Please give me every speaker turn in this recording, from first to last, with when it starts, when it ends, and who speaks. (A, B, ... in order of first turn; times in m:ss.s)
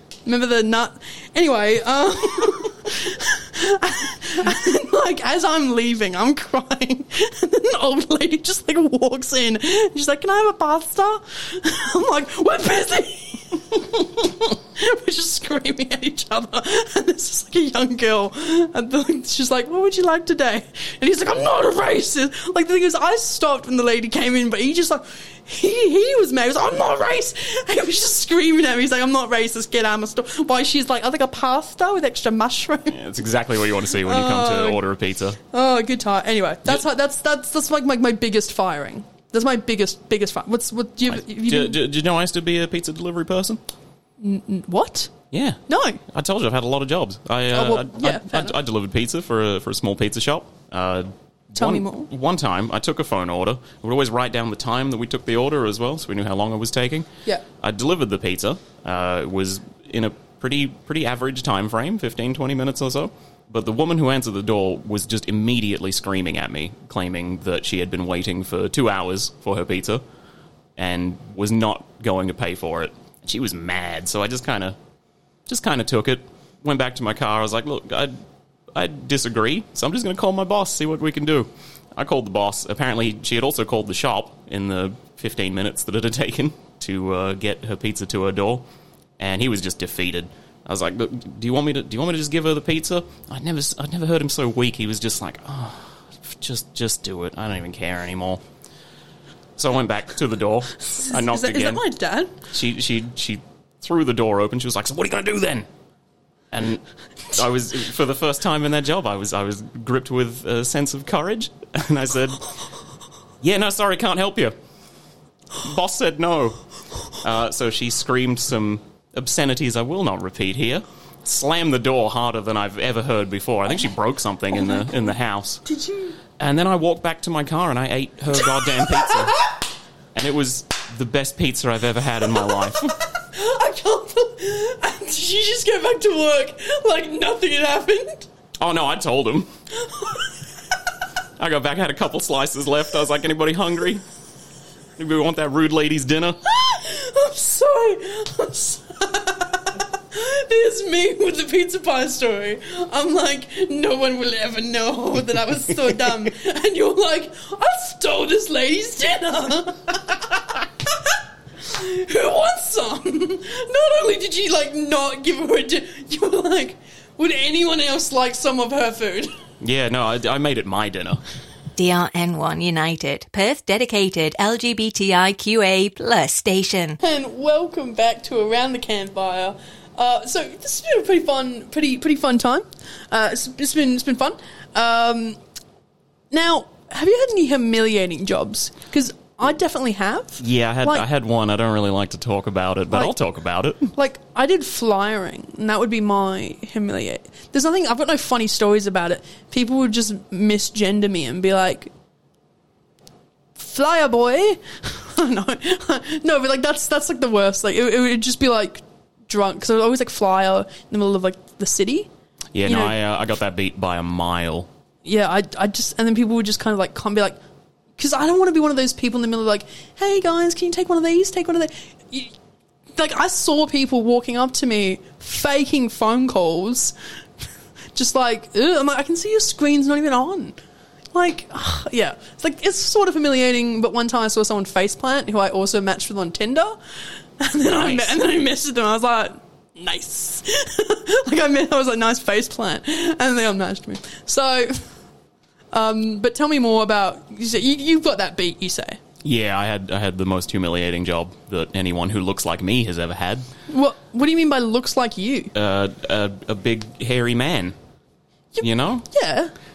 0:00.3-0:33.0 A
0:32.9-0:35.4 B
0:34.0-0:34.8 A
0:35.5-0:41.8 A
0:41.1-0:43.6 B
0:44.2-0:45.1 A
0:45.3-1:10.0 B
0:45.7-0:46.0 A
0:47.5-0:48.6 A
0:51.6-0:52.1 A
1:10.8-1:14.8 B
1:15.5-1:18.1 B
1:18.8-1:28.6 B
1:29.2-1:38.4 B
1:39.6-1:41.8 B
1:40.9-1:42.4 A
1:42.5-1:45.7 B
1:46.5-1:52.5 B
1:53.4-1:54.6 B
1:55.6-1:56.6 B
1:57.2-2:05.6 B
2:05.7-2:06.2 A
2:06.4-2:09.4 B
2:08.6-2:09.5 A
2:10.2-2:13.0 B
2:13.2-2:18.3 A
2:18.6-2:19.5 B
2:19.9-2:20.3 A
2:21.4-2:24.0 B
2:25.0-2:26.4 B
2:26.4-2:49.3 A
2:49.6-2:51.2 B
2:51.8-2:57.0 C
2:57.0-3:05.4 A
3:06.3-3:11.1 A
3:10.4-3:13.9 B
3:13.9-3:21.9 A
3:23.6-3:32.1 A
3:32.5-3:34.7 B
3:32.7-3:33.0 A
3:35.0-3:37.4 A
3:38.0-3:42.3 A
3:43.0-3:46.9 A
3:48.0-3:50.6 A
3:51.1-3:56.8 A
3:57.4-4:04.9 A
3:57.7-3:58.1 B
4:05.7-4:09.0 A
4:09.2-4:13.5 B
4:13.7-4:15.5 A
4:15.5-4:17.8 B
4:18.5-4:19.5 A
4:18.6-4:19.1 B